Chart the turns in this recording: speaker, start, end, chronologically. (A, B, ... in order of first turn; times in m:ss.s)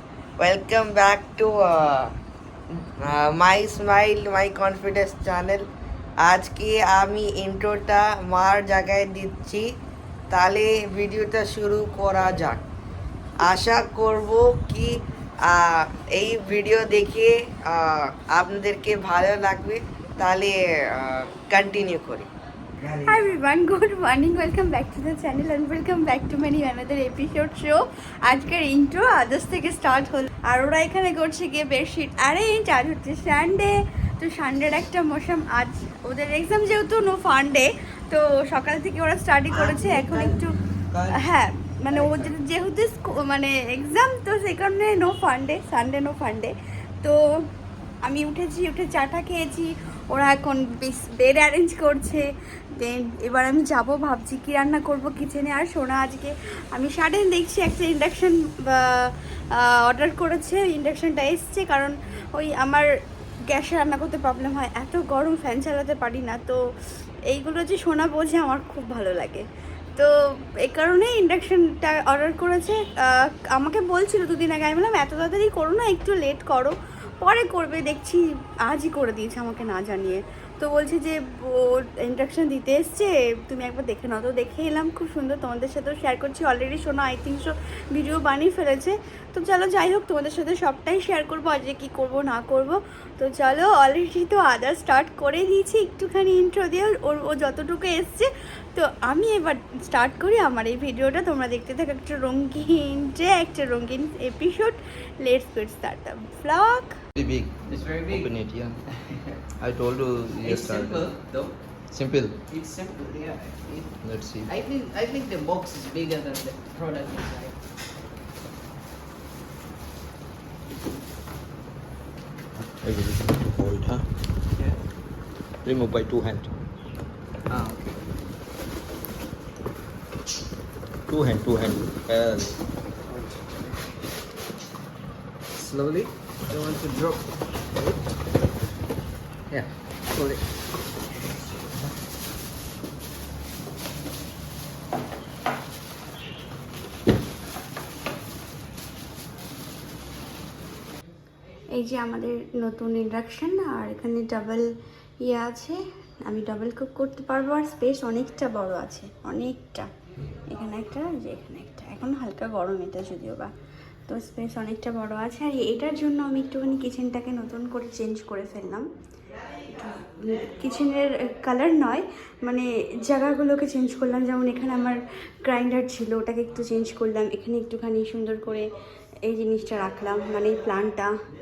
0:00.4-0:02.1 A
0:03.0-0:05.6 A
0:06.2-0:09.7 A
0:10.3-0:12.6 A
0:13.4-0:22.3 A
0:22.8-0:23.3 B
0:23.0-0:40.5 C
0:39.6-0:40.4 B
0:41.1-0:47.2 C
0:48.0-1:02.9 C
1:03.5-1:06.6 C
1:07.3-1:09.4 C
1:10.0-1:47.0 C
1:47.1-1:48.8 D
1:47.7-1:48.3 B
1:49.6-1:51.1 D
1:50.4-1:51.5 B
1:51.9-1:52.4 D
1:52.5-1:53.9 B
1:54.0-1:54.5 D
1:54.5-1:57.5 B
2:02.8-2:04.0 D
2:05.6-2:06.5 D
2:07.5-2:07.9 B
2:11.1-2:12.6 D
2:13.1-2:13.4 B
2:15.6-2:16.0 D
2:16.5-2:17.2 B
2:31.8-2:34.6 C
2:35.2-2:39.9 C
2:40.5-2:43.5 C
2:44.1-2:48.8 C
2:49.8-2:58.7 C
2:59.3-3:01.1 C